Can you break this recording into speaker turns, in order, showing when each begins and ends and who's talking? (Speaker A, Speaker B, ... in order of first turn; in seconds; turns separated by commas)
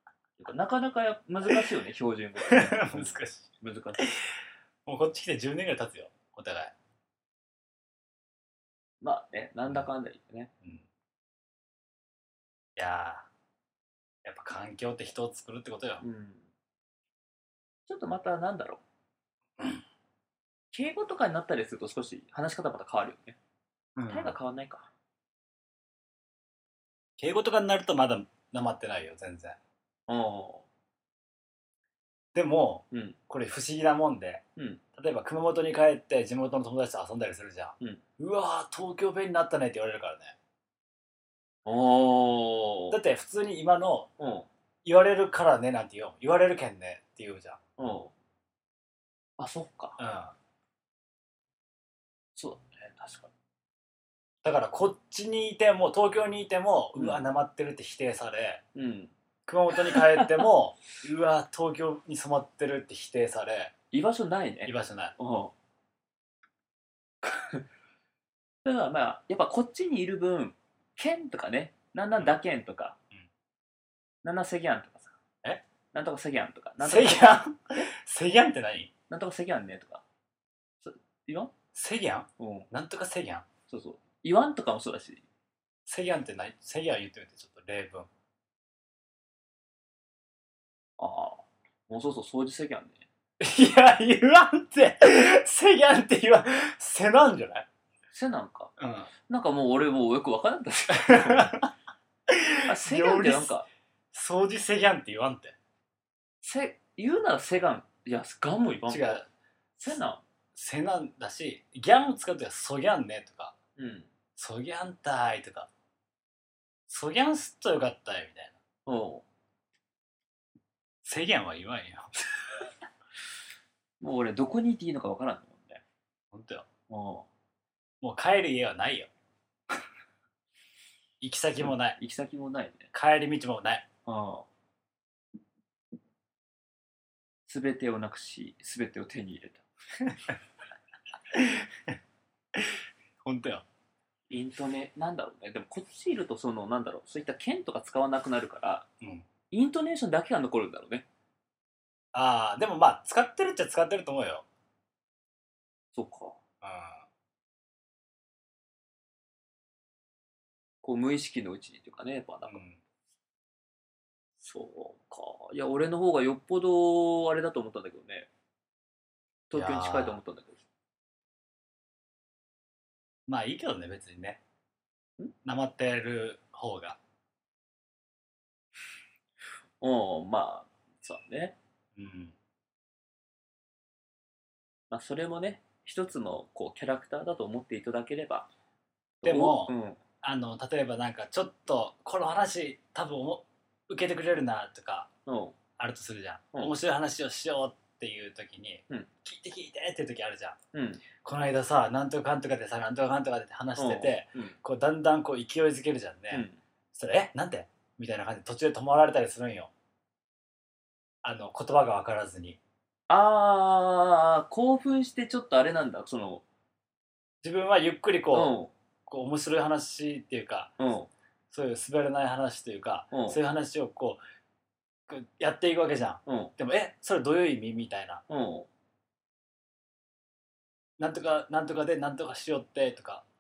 Speaker A: 0.4-4.0, Speaker B: 2.5-3.5, Speaker B: 4.0-4.3, Speaker B: 4.9-6.7, Speaker A: 9.0-10.5, Speaker B: 12.8-13.3, Speaker B: 14.2-16.0, Speaker A: 16.0-16.5, Speaker A: 17.9-18.8, Speaker A: 20.7-23.4, Speaker B: 24.0-24.4, Speaker A: 24.1-24.9, Speaker B: 27.2-29.6, Speaker A: 30.1-30.6, Speaker B: 32.3-34.4, Speaker A: 32.9-33.2, Speaker B: 35.0-40.4, Speaker A: 41.6-43.0, Speaker B: 42.9-44.1, Speaker A: 44.2-44.5, Speaker B: 44.8-47.6, Speaker A: 47.8-48.1, Speaker A: 49.4-50.0, Speaker B: 50.0-50.3, Speaker A: 52.4-53.3, Speaker B: 54.4-58.6, Speaker A: 57.0-57.2, Speaker A: 58.8-59.1, Speaker B: 59.5-63.7, Speaker A: 59.9-60.4, Speaker A: 63.9-65.5, Speaker B: 64.7-65.2, Speaker A: 67.2-67.6, Speaker A: 68.6-73.0, Speaker A: 74.2-75.2, Speaker A: 75.9-77.9, Speaker B: 76.8-78.9, Speaker A: 79.1-80.0, Speaker A: 80.8-81.5, Speaker B: 81.8-83.5, Speaker A: 82.4-82.7, Speaker A: 83.7-85.2, Speaker B: 85.9-88.1, Speaker A: 91.0-93.0, Speaker B: 93.4-97.7, Speaker A: 98.1-98.7, Speaker B: 98.8-99.1, Speaker A: 99.3-101.5, Speaker B: 100.9-101.7, Speaker B: 102.3-103.5, Speaker A: 102.7-103.7, Speaker B: 104.1-105.5, Speaker A: 106.4-109.2, Speaker B: 108.9-109.3, Speaker A: 109.8-110.2, Speaker B: 110.5-113.6, Speaker A: 113.8-114.1, Speaker B: 114.4-115.7, Speaker B: 116.9-118.6, Speaker A: 118.9-119.2, Speaker B: 121.0-122.1, Speaker A: 124.0-125.8, Speaker B: 126.3-126.7, Speaker A: 126.9-127.3, Speaker B: 128.0-129.1, Speaker B: 131.2-132.0, Speaker A: 131.6-132.9, Speaker B: 132.9-133.9, Speaker A: 134.1-134.5, Speaker A: 137.5-139.6, Speaker B: 141.3-141.9, Speaker B: 142.5-143.7, Speaker A: 144.3-148.9, Speaker A: 149.5-151.1, Speaker B: 152.1-154.4, Speaker A: 155.9-156.4, Speaker B: 156.6-157.0, Speaker A: 160.8-162.6, Speaker B: 162.5-162.8, Speaker A: 164.4-168.3, Speaker A: 169.5-170.6, Speaker B: 169.5-170.2, Speaker B: 173.3-174.4, Speaker B: 175.4-177.0, Speaker A: 179.8-181.6, Speaker B: 182.0-182.3, Speaker A: 184.9-188.5, Speaker A: 189.2-190.0, Speaker B: 189.2-195.1, Speaker A: 195.3-195.6, Speaker B: 195.8-200.6, Speaker A: 200.7-201.0, Speaker B: 201.2-209.7, Speaker A: 203.8-204.6, Speaker A: 206.3-206.6, Speaker B: 211.2-212.6, Speaker A: 213.1-216.4, Speaker B: 217.4-218.6, Speaker A: 218.3-218.7, Speaker B: 219.1-220.7, Speaker A: 220.8-221.1, Speaker B: 221.5-224.2, Speaker A: 223.1-223.4, Speaker B: 225.1-228.2, Speaker A: 226.3-226.5, Speaker A: 228.3-228.7, Speaker B: 231.0-233.2